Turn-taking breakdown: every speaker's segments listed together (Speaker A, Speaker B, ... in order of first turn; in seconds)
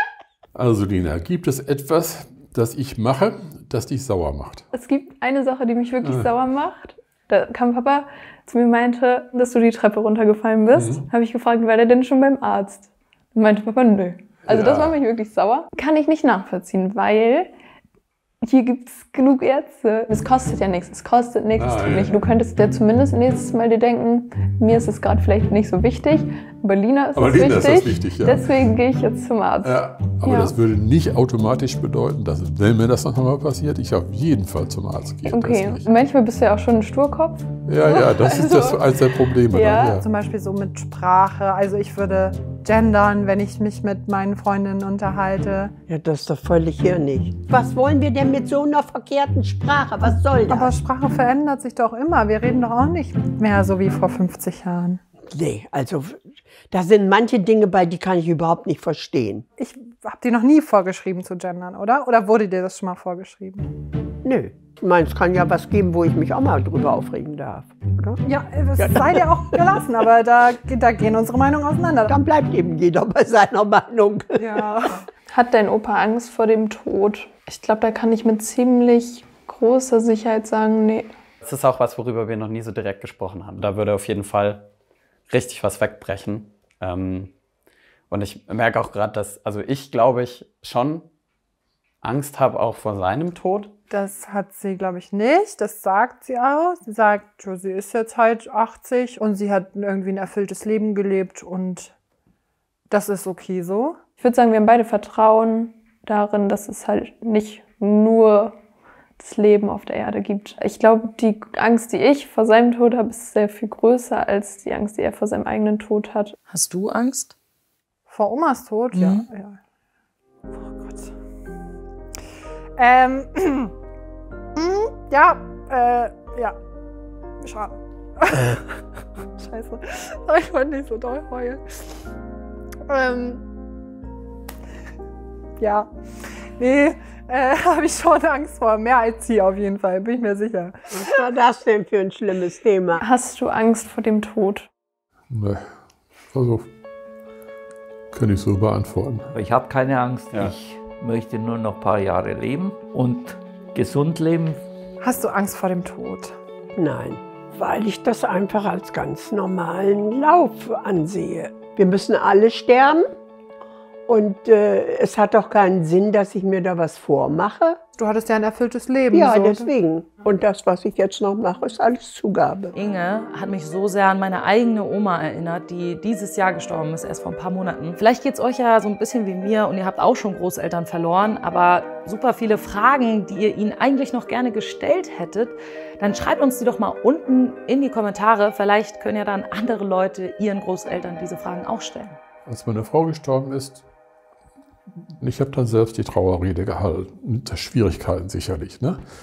Speaker A: 0.5-4.7, 6.0-6.3, 10.7-11.1, 14.5-15.0, 21.6-22.2, 27.1-28.5, 29.6-35.9, 37.6-40.0, 145.3-145.6, 146.3-146.7, 148.1-149.3, 192.4-193.8, 195.2-199.0
Speaker B: 4.7-17.5, 18.4-30.5, 35.3-40.0, 75.3-81.1, 104.2-108.6, 109.2-116.3, 143.0-144.7
Speaker C: 40.0-45.7, 50.5-55.0, 59.6-63.7, 68.2-72.1, 74.4-75.0, 93.9-101.9, 102.9-104.0, 118.1-119.6, 120.5-121.1, 122.8-123.7, 124.5-126.5, 127.4-128.7, 129.4-131.6, 132.9-133.4, 135.6-135.9, 136.6-141.2, 155.0-156.3, 168.0-169.7
Speaker D: 45.9-50.7, 55.3-59.5, 64.2-68.2, 68.8-69.5, 72.1-74.6, 140.9-143.0, 156.8-163.1, 164.1-167.8, 169.1-172.7
Speaker E: 81.4-84.7, 85.3-87.3, 88.1-91.1, 92.0-93.7
Speaker F: 116.5-117.3, 118.9-119.2, 172.7-192.2
Speaker G: 149.3-154.6